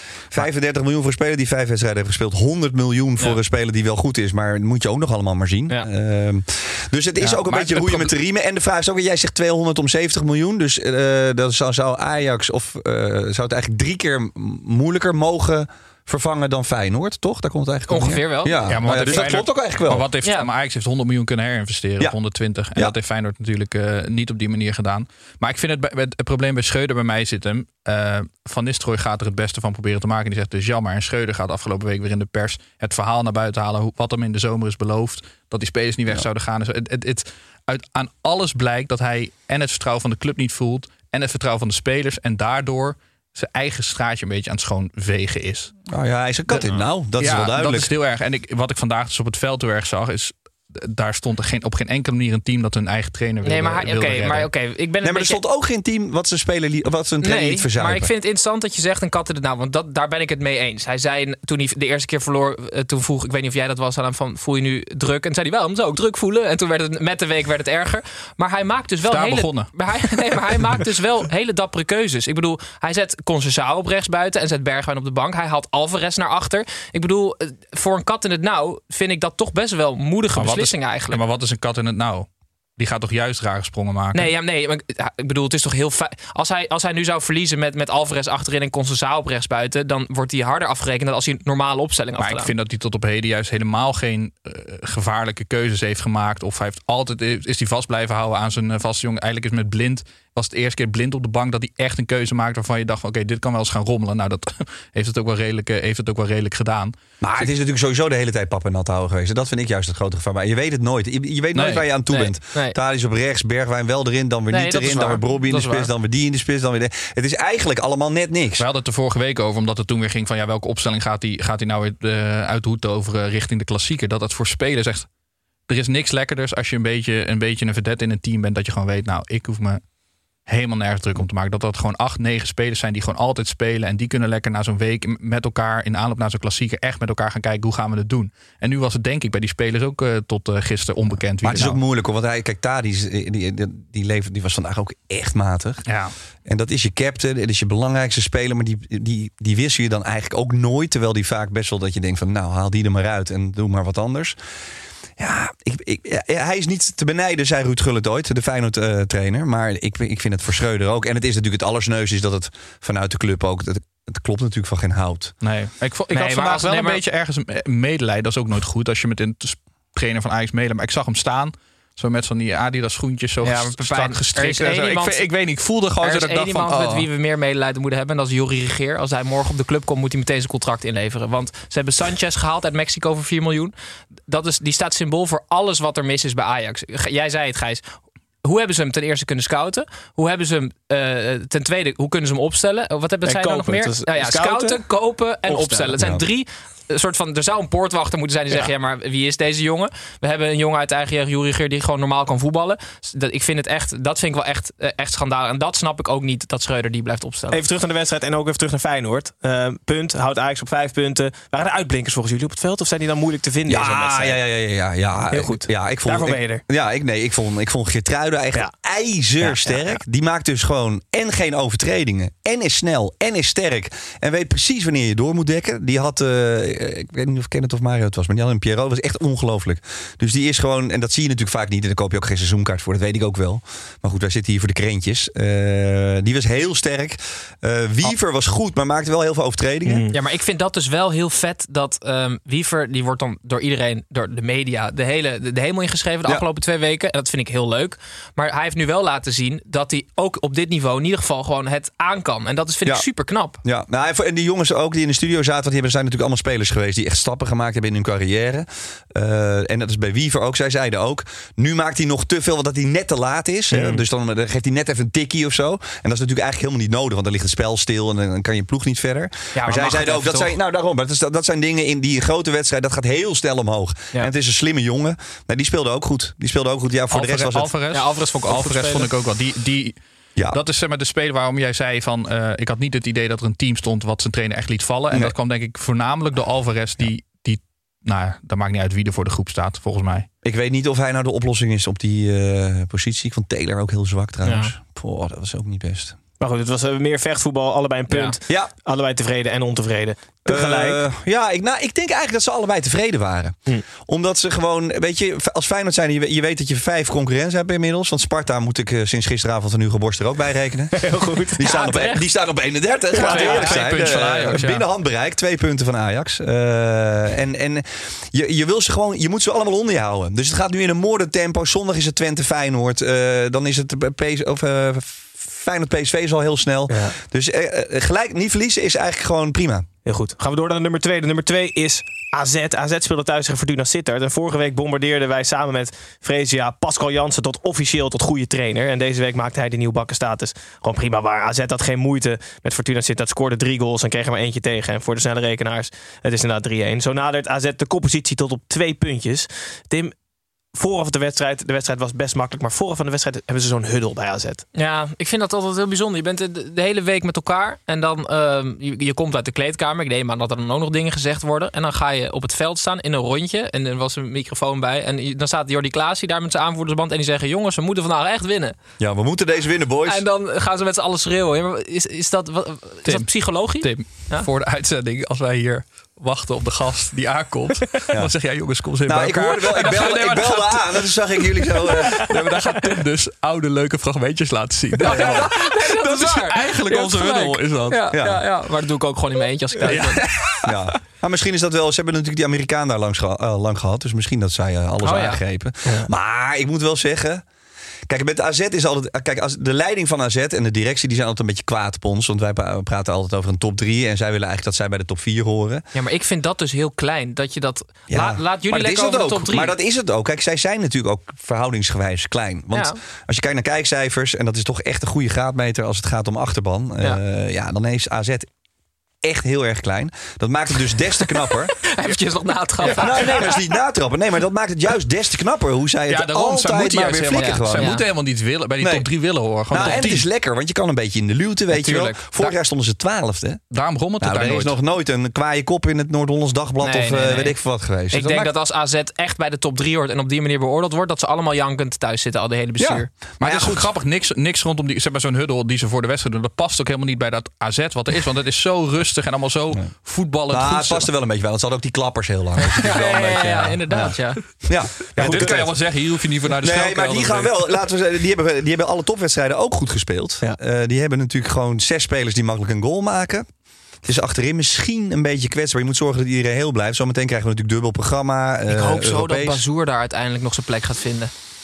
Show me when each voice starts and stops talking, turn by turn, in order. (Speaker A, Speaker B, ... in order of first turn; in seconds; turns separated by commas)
Speaker A: 0.3-20.1, Speaker B: 7.3-8.1, Speaker C: 17.9-19.3, Speaker B: 18.6-45.7, Speaker A: 45.9-47.9, Speaker B: 46.5-54.5, Speaker C: 53.4-55.4, Speaker A: 55.0-58.1, Speaker C: 57.2-81.2, Speaker B: 69.0-69.7, Speaker B: 80.3-84.3, Speaker C: 84.1-92.5, Speaker B: 92.2-107.0, Speaker A: 107.2-118.7, Speaker B: 111.6-111.9, Speaker C: 112.1-112.8, Speaker C: 114.5-115.9, Speaker B: 118.6-125.1, Speaker B: 125.7-129.8, Speaker B: 130.5-141.8, Speaker A: 141.4-145.8, Speaker B: 145.9-146.1, Speaker A: 146.5-154.4, Speaker A: 155.2-165.3, Speaker B: 165.4-177.1, Speaker C: 166.1-167.0, Speaker C: 173.4-175.3, Speaker C: 176.0-183.7, Speaker C: 184.3-207.6, Speaker D: 193.2-194.8, Speaker D: 195.4-196.1, Speaker A: 196.0-196.2, Speaker D: 207.5-214.4, Speaker A: 213.7-240.1, Speaker D: 215.3-216.6, Speaker D: 219.4-219.9, Speaker D: 239.9-240.1, Speaker C: 240.1-253.6, Speaker A: 253.6-277.7, Speaker D: 263.7-264.0, Speaker C: 269.6-270.6, Speaker B: 277.1-280.0, Speaker C: 277.9-279.1, Speaker B: 280.5-290.3, Speaker A: 290.4-296.2, Speaker C: 294.4-294.7, Speaker D: 296.4-301.0, Speaker C: 298.1-298.4, Speaker A: 300.5-329.9, Speaker D: 310.9-311.7, Speaker C: 311.6-312.2, Speaker D: 313.1-313.8, Speaker C: 313.2-313.7, Speaker B: 313.3-314.9, Speaker D: 326.9-327.2, Speaker D: 330.1-350.1, Speaker D: 350.7-354.6, Speaker C: 354.8-368.8, Speaker A: 369.0-370.2, Speaker C: 370.1-374.5, Speaker B: 373.1-381.1, Speaker A: 378.1-378.4, Speaker A: 379.1-382.7, Speaker B: 381.8-388.1, Speaker C: 385.0-390.2, Speaker A: 385.1-385.5, Speaker A: 388.1-388.4, Speaker B: 389.9-390.7, Speaker A: 390.6-397.4, Speaker C: 395.0-395.4, Speaker A: 398.1-405.8, Speaker C: 405.9-409.7, Speaker A: 408.1-418.5, Speaker C: 412.7-413.0, Speaker A: 419.2-421.8, Speaker C: 421.9-423.5, Speaker A: 422.9-428.0, Speaker B: 426.1-430.3, Speaker C: 427.3-428.1, Speaker A: 428.8-429.1, Speaker A: 429.7-433.6, Speaker C: 431.7-432.6, Speaker B: 433.7-434.8, Speaker A: 434.2-438.5, Speaker C: 436.8-437.6, Speaker C: 438.1-443.1, Speaker A: 442.8-443.9, Speaker B: 443.4-451.1, Speaker A: 450.5-456.0, Speaker C: 452.6-454.4, Speaker B: 455.1-457.5, Speaker D: 455.2-455.7, Speaker A: 456.6-463.5, Speaker A: 464.0-469.6, Speaker C: 468.7-471.3